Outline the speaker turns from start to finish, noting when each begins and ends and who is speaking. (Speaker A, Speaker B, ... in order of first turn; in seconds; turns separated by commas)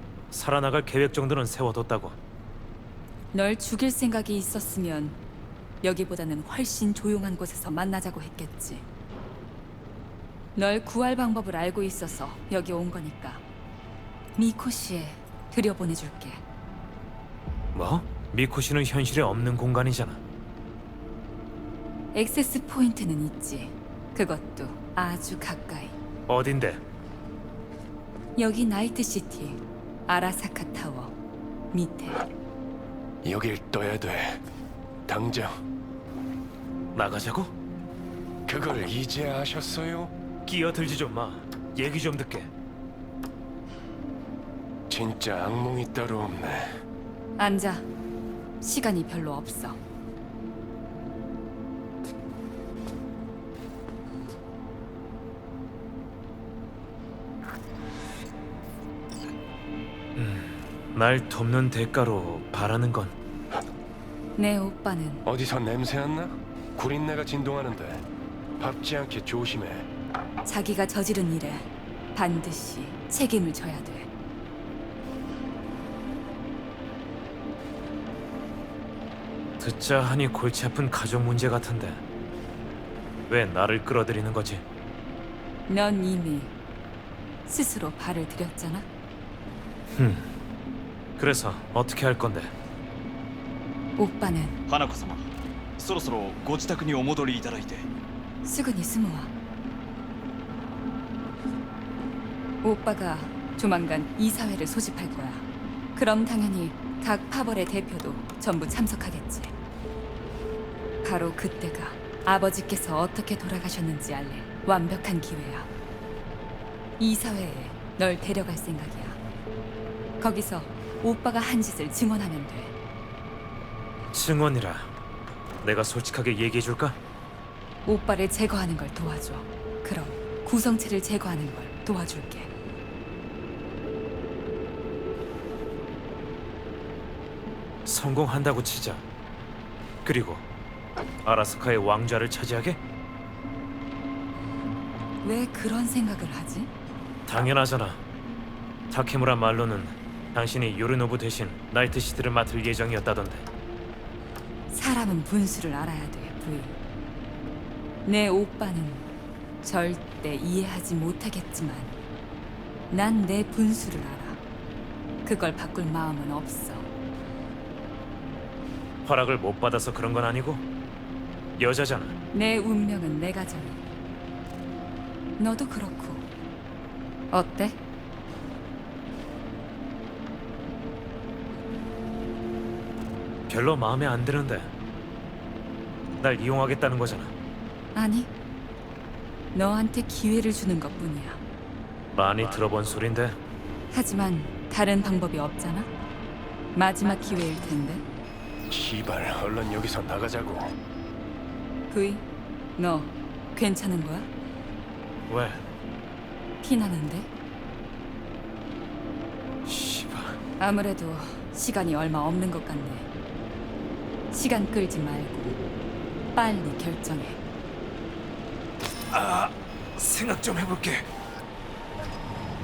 Speaker A: 0.3-2.1, Speaker B: 3.3-5.2, Speaker B: 5.8-8.8, Speaker B: 10.6-13.4, Speaker B: 14.4-16.4, Speaker A: 17.7-20.2, Speaker B: 22.1-26.0, Speaker A: 26.3-26.8, Speaker B: 28.4-31.1, Speaker B: 31.7-32.2, Speaker C: 33.2-34.4, Speaker C: 35.1-35.5, Speaker A: 36.9-37.5, Speaker C: 38.5-40.1, Speaker A: 40.5-42.5, Speaker C: 44.9-46.7, Speaker B: 47.4-47.9, Speaker B: 48.6-49.8, Speaker A: 60.1-63.1, Speaker B: 64.4-65.2, Speaker C: 65.2-68.0, Speaker C: 68.6-69.9, Speaker B: 70.5-74.1, Speaker A: 79.6-82.0, Speaker A: 83.3-84.6, Speaker B: 85.7-86.5, Speaker B: 87.5-88.9, Speaker A: 90.0-90.3, Speaker A: 91.2-92.5, Speaker B: 94.0-94.6, Speaker D: 94.7-95.2, Speaker D: 95.8-97.9, Speaker B: 98.4-99.3, Speaker B: 102.6-109.5, Speaker B: 111.0-115.7, Speaker B: 117.0-119.2, Speaker B: 120.2-122.7, Speaker A: 124.1-124.9, Speaker A: 125.6-127.0, Speaker B: 127.8-132.5, Speaker A: 137.8-139.0, Speaker A: 140.0-140.4, Speaker A: 141.2-142.8, Speaker B: 145.2-146.7, Speaker A: 147.2-148.0, Speaker A: 148.9-153.4, Speaker B: 154.7-156.8, Speaker B: 158.1-159.1, Speaker B: 159.6-161.9, Speaker B: 162.9-164.4, Speaker B: 165.2-166.9, Speaker A: 169.0-170.6, Speaker A: 171.6-172.2, Speaker B: 172.3-173.8, Speaker B: 175.4-176.2, Speaker B: 177.3-177.8, Speaker A: 183.5-184.7, Speaker A: 186.2-187.3, Speaker B: 187.9-188.3, Speaker B: 189.5-191.4, Speaker A: 192.1-193.4, Speaker B: 193.9-195.9, Speaker B: 196.7-198.0, Speaker C: 198.7-200.7, Speaker B: 201.9-202.2, Speaker B: 202.8-204.3, Speaker A: 205.3-205.6, Speaker B: 206.6-207.3, Speaker A: 209.7-210.4, Speaker B: 210.6-213.1, Speaker B: 214.3-215.6, Speaker B: 216.3-217.4, Speaker A: 219.1-221.1